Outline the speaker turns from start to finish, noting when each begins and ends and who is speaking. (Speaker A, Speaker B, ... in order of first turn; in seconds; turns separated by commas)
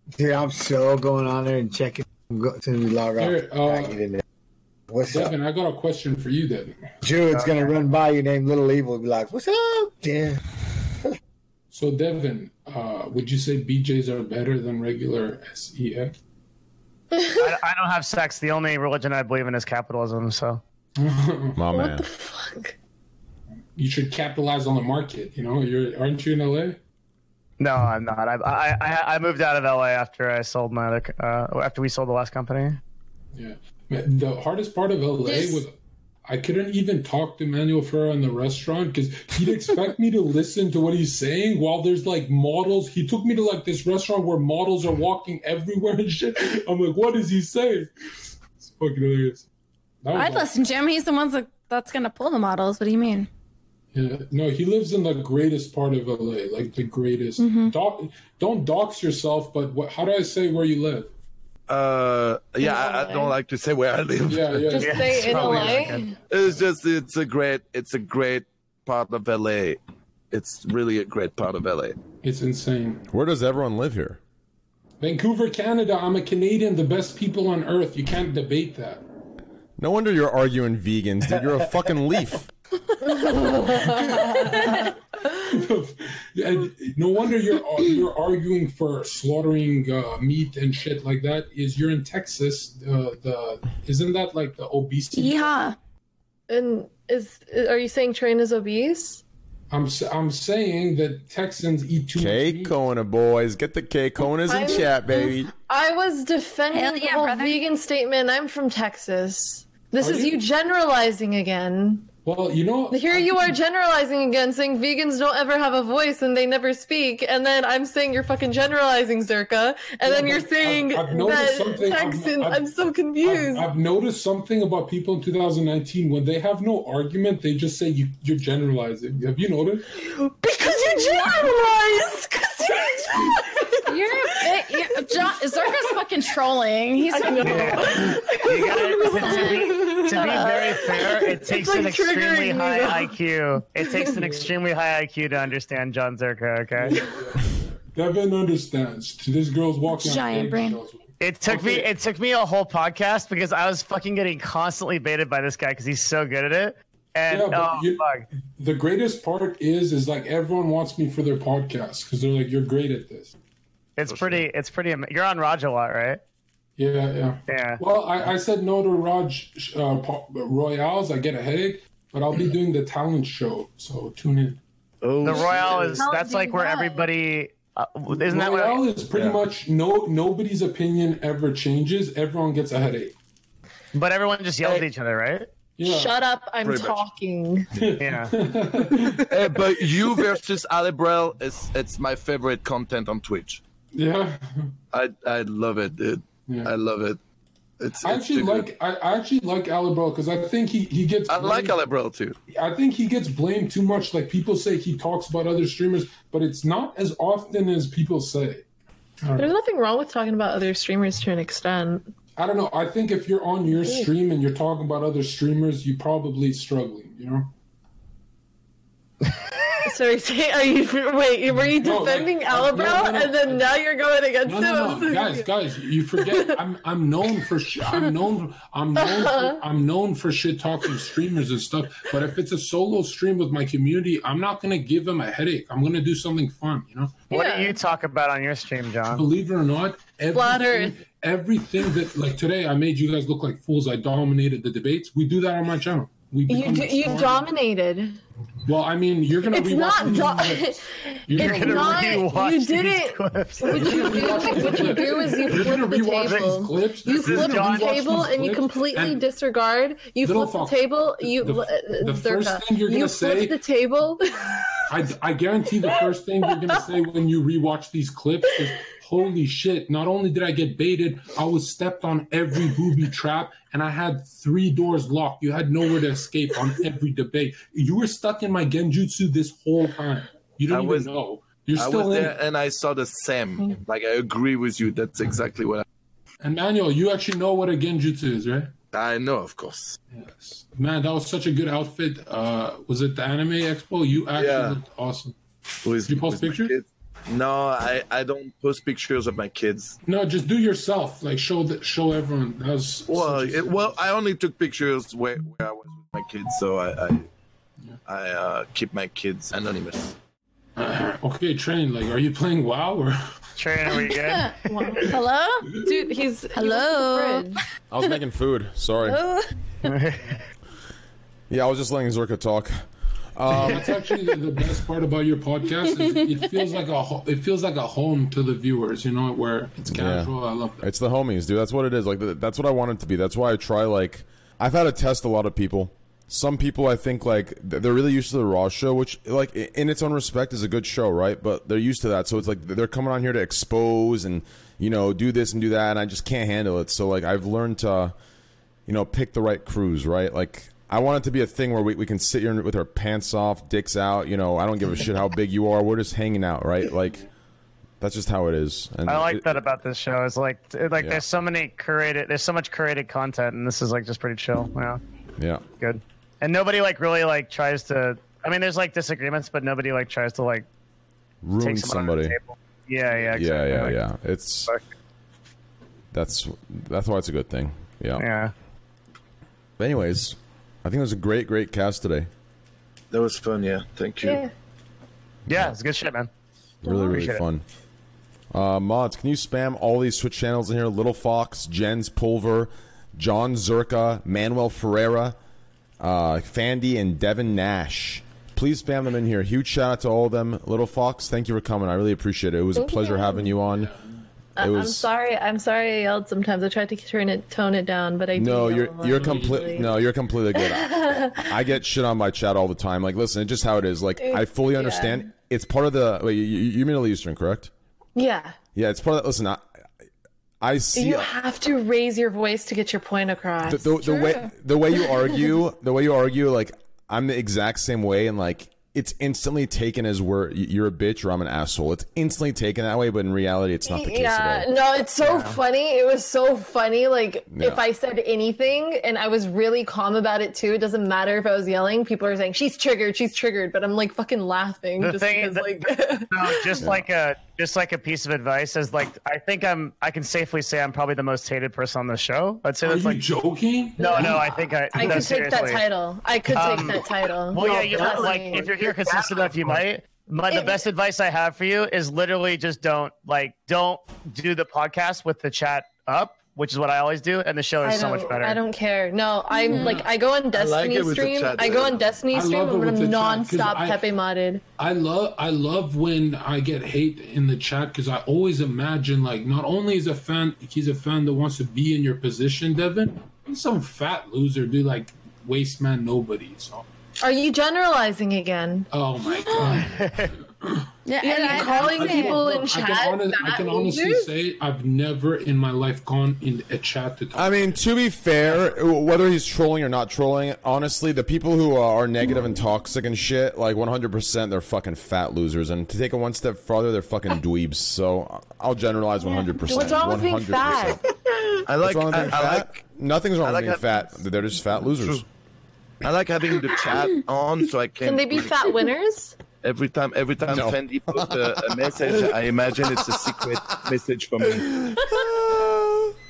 Speaker A: 0.1-4.2, Speaker B: 3.2-4.0, Speaker A: 4.9-5.3, Speaker B: 5.1-6.9, Speaker A: 7.0-10.4, Speaker C: 7.3-7.8, Speaker B: 11.7-16.1, Speaker D: 17.1-17.4, Speaker C: 17.4-20.6, Speaker B: 21.0-21.6, Speaker E: 21.6-22.1, Speaker D: 21.7-22.8, Speaker B: 23.8-26.8, Speaker C: 27.6-32.8, Speaker B: 33.3-49.4, Speaker F: 35.2-35.6, Speaker B: 50.0-50.5, Speaker F: 50.1-53.3, Speaker B: 53.9-61.1, Speaker F: 57.4-57.7, Speaker G: 61.7-64.7, Speaker D: 62.6-63.3, Speaker B: 64.3-66.0, Speaker D: 64.7-66.1, Speaker C: 64.8-66.0, Speaker G: 66.3-69.8, Speaker G: 70.3-72.0, Speaker B: 72.2-73.0, Speaker E: 73.1-74.2, Speaker B: 75.0-79.0, Speaker E: 79.8-82.5, Speaker D: 83.2-84.7, Speaker B: 85.4-95.5, Speaker F: 95.1-95.8, Speaker D: 96.5-99.2, Speaker B: 99.7-102.7, Speaker E: 102.1-105.5, Speaker D: 104.3-104.9, Speaker D: 105.7-112.1, Speaker F: 106.7-107.6, Speaker B: 110.0-110.4, Speaker B: 112.2-113.5, Speaker D: 112.9-123.7, Speaker B: 120.0-122.7, Speaker B: 123.2-129.9, Speaker D: 130.0-134.5, Speaker F: 133.9-137.8, Speaker D: 137.1-143.1, Speaker C: 137.4-147.0, Speaker F: 139.2-140.7, Speaker B: 146.8-151.9, Speaker F: 149.9-150.8, Speaker C: 151.2-158.2, Speaker B: 157.3-158.0, Speaker B: 158.6-163.3, Speaker C: 164.0-166.2, Speaker G: 164.1-164.4, Speaker B: 166.8-174.6, Speaker C: 167.5-167.8, Speaker G: 175.0-176.0, Speaker C: 175.2-178.8, Speaker D: 176.0-177.0, Speaker B: 178.1-183.1, Speaker C: 183.9-185.5, Speaker B: 185.8-186.2, Speaker D: 185.8-187.7, Speaker G: 186.6-187.0, Speaker B: 187.8-189.3, Speaker C: 188.0-188.3, Speaker G: 189.2-193.6, Speaker B: 193.9-194.7, Speaker G: 194.9-197.2, Speaker B: 196.5-196.7, Speaker G: 197.8-198.7, Speaker B: 198.0-201.8, Speaker G: 201.3-202.4, Speaker B: 202.5-208.6, Speaker B: 209.2-209.5, Speaker D: 209.4-212.1, Speaker B: 212.4-217.5, Speaker D: 219.8-225.5, Speaker B: 221.5-223.8, Speaker B: 224.4-237.2, Speaker D: 226.2-226.6, Speaker D: 229.0-229.6, Speaker D: 237.3-237.8, Speaker C: 237.3-239.2, Speaker B: 239.1-247.5, Speaker D: 240.3-241.0, Speaker D: 246.5-248.2, Speaker B: 248.6-252.3, Speaker D: 249.5-264.8, Speaker C: 251.3-254.8, Speaker B: 253.7-259.2, Speaker C: 256.2-256.5, Speaker C: 257.1-258.1, Speaker B: 260.2-263.6, Speaker B: 264.9-282.4, Speaker G: 280.7-281.1, Speaker G: 281.8-285.8, Speaker B: 286.4-288.7, Speaker G: 288.9-290.0, Speaker B: 290.1-295.4, Speaker G: 294.3-294.8, Speaker G: 295.8-300.0, Speaker B: 296.1-296.7, Speaker B: 300.0-303.9, Speaker G: 303.1-307.3, Speaker G: 308.1-310.1, Speaker B: 310.8-313.2, Speaker C: 313.6-314.5, Speaker F: 314.1-315.8, Speaker D: 314.7-315.2, Speaker D: 315.7-317.6, Speaker F: 316.5-317.5, Speaker E: 317.9-319.2, Speaker F: 319.0-319.5, Speaker C: 319.8-320.4, Speaker E: 321.5-322.8, Speaker E: 323.3-323.9, Speaker B: 323.5-330.8, Speaker F: 326.0-326.4, Speaker E: 329.9-348.1, Speaker E: 348.9-357.2, Speaker E: 358.0-359.7, Speaker C: 359.1-365.0, Speaker E: 361.0-361.2, Speaker E: 365.4-365.6, Speaker C: 365.8-370.7, Speaker E: 371.4-372.4, Speaker C: 371.6-374.0, Speaker E: 373.3-374.7, Speaker E: 376.1-378.2, Speaker C: 378.2-378.5, Speaker E: 379.8-382.3, Speaker G: 383.1-384.4, Speaker D: 384.2-384.5, Speaker C: 385.5-386.3, Speaker E: 385.5-385.7, Speaker E: 386.8-387.6, Speaker D: 386.9-387.1, Speaker C: 387.1-387.4, Speaker E: 388.5-395.4, Speaker E: 396.0-403.9, Speaker D: 402.8-403.5, Speaker B: 403.7-404.0, Speaker E: 404.6-405.1, Speaker D: 404.6-409.9, Speaker E: 408.3-417.7, Speaker B: 409.1-409.9, Speaker D: 410.6-411.5, Speaker D: 414.2-415.2, Speaker D: 418.1-418.6, Speaker E: 418.7-419.7, Speaker E: 420.6-421.3, Speaker D: 420.9-424.0, Speaker E: 423.6-434.7, Speaker F: 424.0-424.5, Speaker D: 433.9-446.8, Speaker C: 435.2-435.6, Speaker E: 437.5-437.8, Speaker C: 445.0-453.2, Speaker B: 452.8-454.4, Speaker C: 454.0-455.8, Speaker D: 454.0-458.7, Speaker C: 456.5-468.6, Speaker G: 457.8-458.2, Speaker D: 460.5-460.8, Speaker D: 467.8-474.6, Speaker F: 469.5-470.1, Speaker B: 469.8-470.0, Speaker G: 470.5-472.2, Speaker B: 472.3-474.0, Speaker B: 474.8-486.8, Speaker D: 487.2-488.9, Speaker B: 488.9-490.1, Speaker F: 489.4-489.8, Speaker C: 489.8-490.3, Speaker F: 491.1-492.5, Speaker D: 491.2-494.3, Speaker B: 491.5-497.8, Speaker E: 497.3-511.0, Speaker D: 509.6-511.1, Speaker G: 511.7-512.8, Speaker E: 511.8-515.2, Speaker G: 513.4-514.0, Speaker G: 514.8-515.2, Speaker G: 516.0-518.8, Speaker D: 518.0-519.4, Speaker G: 519.6-524.9, Speaker E: 520.5-521.3, Speaker E: 524.9-526.0